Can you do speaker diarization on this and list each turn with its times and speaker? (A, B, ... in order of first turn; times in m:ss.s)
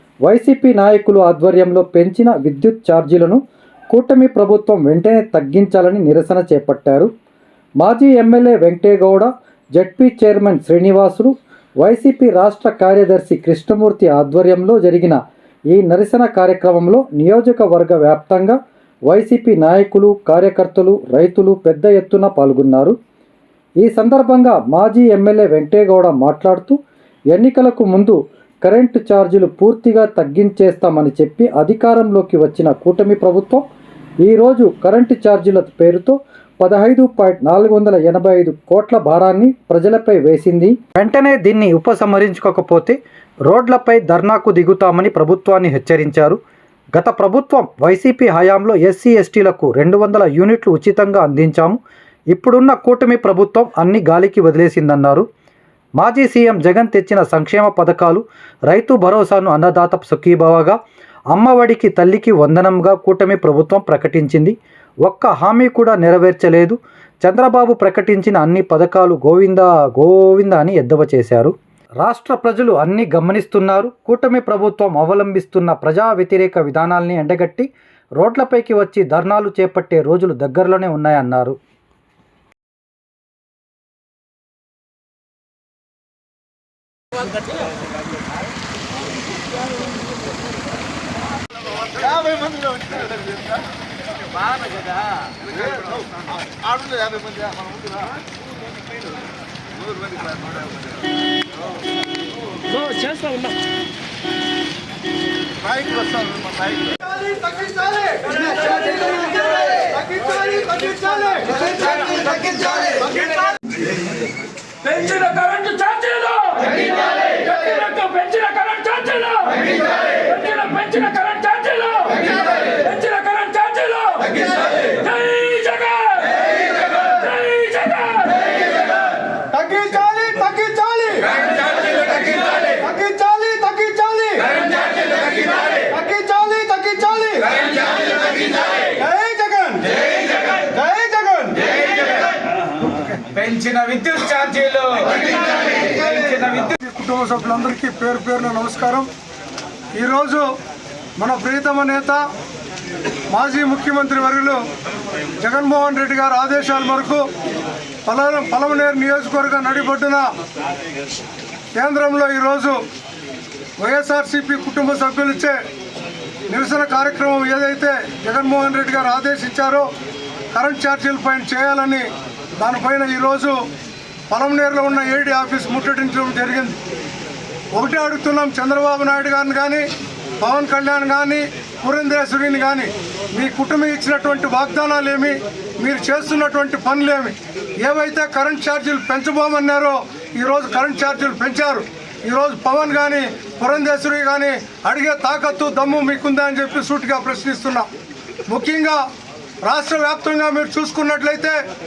0:00.3-0:07.1 A
0:07.8-0:15.2 A
0:15.7-0:18.6 A
0:19.1-0:23.0 A
0:23.8-0:26.8 A
0:27.3-0:33.6 A
0:34.2-0:43.0 A
0:43.5-0:46.4 A
0:47.0-0:51.8 A
0:52.3-0:55.3 A
0:56.0-1:00.8 A
1:01.3-1:17.7 A
1:18.2-1:21.6 A
1:31.9-1:33.6 B
1:34.4-1:38.2 B
1:39.8-1:40.7 B
1:42.7-1:43.6 C
1:45.6-1:47.0 B
1:47.0-1:53.5 D
1:54.8-2:06.4 C
2:07.0-2:08.4 C
2:09.5-2:17.6 D
2:18.8-2:21.7 D
2:22.8-2:23.2 D
2:23.3-2:26.8 E
2:26.8-2:29.1 D
2:30.0-2:30.5 D
2:31.2-2:32.2 D
2:33.3-2:34.6 D
2:35.4-2:37.2 D
2:38.1-2:40.3 D
2:41.8-2:42.8 D
2:43.8-2:45.6 D
2:46.5-2:49.9 D
2:50.5-2:53.6 D
2:54.3-2:56.8 D
2:57.7-2:59.9 D
3:00.4-3:17.9 D
3:18.5-3:19.0 D
3:19.6-3:21.6 D